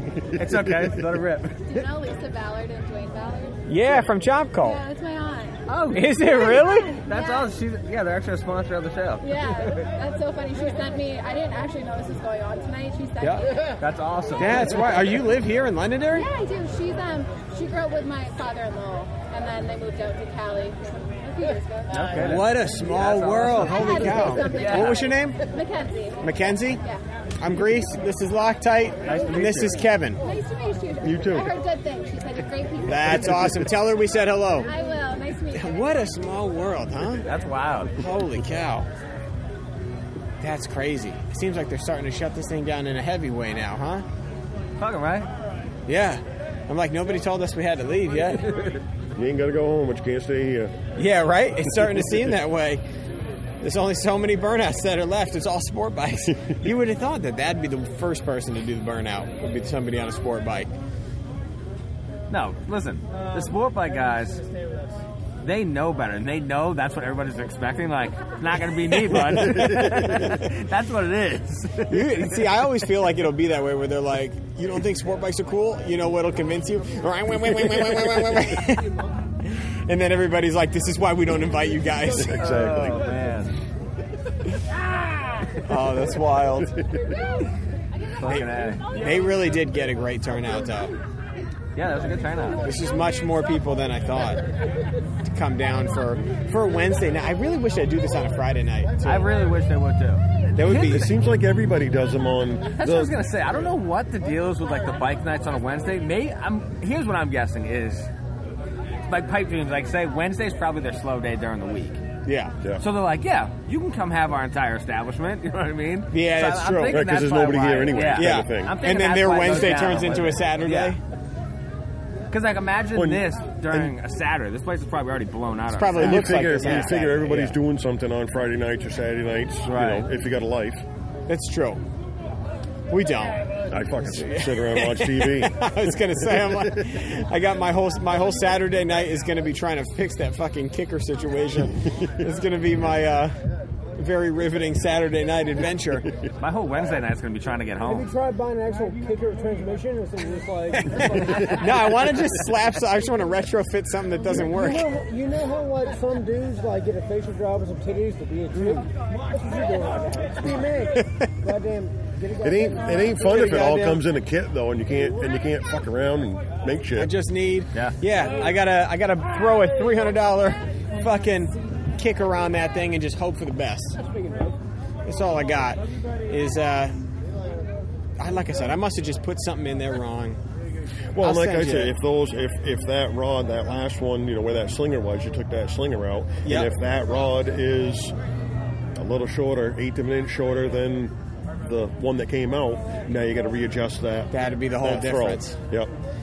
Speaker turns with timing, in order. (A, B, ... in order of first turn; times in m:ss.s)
0:00.4-0:01.6 A
0:00.5-0:00.9 B
0:01.6-0:03.6 C
0:03.7-0:04.8 D
0:04.6-0:05.6 C
0:05.7-0:09.3 A
0:05.9-0:07.0 D
0:06.3-0:07.5 C
0:09.2-0:13.6 C
0:13.2-0:13.5 D
0:13.8-0:14.9 A
0:14.4-0:16.3 D
0:16.1-0:22.5 C
0:21.9-0:25.0 A
0:22.2-0:25.4 D
0:23.5-0:27.0 C
0:26.2-0:26.8 D
0:27.4-0:30.2 D
0:29.0-0:29.8 A
0:30.2-0:33.3 C
0:31.0-0:31.5 B
0:32.8-0:34.7 D
0:34.6-0:36.0 C
0:35.5-0:37.3 D
0:37.2-0:37.9 A
0:38.0-0:38.9 D
0:40.4-0:44.0 D
0:44.8-0:45.3 A
0:45.9-0:48.6 D
0:49.2-0:50.7 B
0:51.0-0:52.8 D
0:53.6-1:00.7 D
1:02.3-1:04.4 A
1:05.4-1:12.4 A
1:09.5-1:09.9 B
1:11.9-1:18.9 D
1:19.4-1:22.4 D
1:22.1-1:23.0 B
1:22.4-1:23.5 A
1:25.6-1:26.7 D
1:28.1-1:28.8 A
1:28.2-1:31.0 D
1:31.7-1:32.6 A
1:32.6-1:34.4 D
1:35.2-1:39.3 D
1:39.0-1:40.9 A
1:40.5-1:41.1 D
1:40.6-1:43.1 B
1:42.8-1:48.1 A
1:49.1-1:52.0 A
1:52.2-1:52.5 D
1:52.8-2:01.0 A
1:56.1-1:57.2 D
1:56.9-1:58.8 B
1:58.0-2:01.0 D
2:02.3-2:07.5 A
2:02.9-2:03.9 B
2:05.7-2:07.5 D
2:06.0-2:10.8 B
2:09.7-2:10.0 A
2:11.3-2:11.8 D
2:12.9-2:13.4 D
2:13.7-2:15.6 B
2:14.0-2:23.4 D
2:24.0-2:26.1 D
2:26.4-2:28.1 A
2:27.8-2:31.3 E
2:30.8-2:35.0 D
2:34.3-2:38.8 E
2:38.5-2:38.9 D
2:39.3-2:43.1 E
2:40.5-2:41.3 D
2:42.4-2:47.1 B
2:43.1-2:44.0 D
2:46.9-2:54.0 D
2:55.0-2:56.9 D
2:58.2-3:00.4 D
3:01.1-3:08.1 B
3:01.2-3:02.0 D
3:06.4-3:06.7 D
3:09.0-3:11.1 B
3:11.6-3:15.9 B
3:14.3-3:15.6 D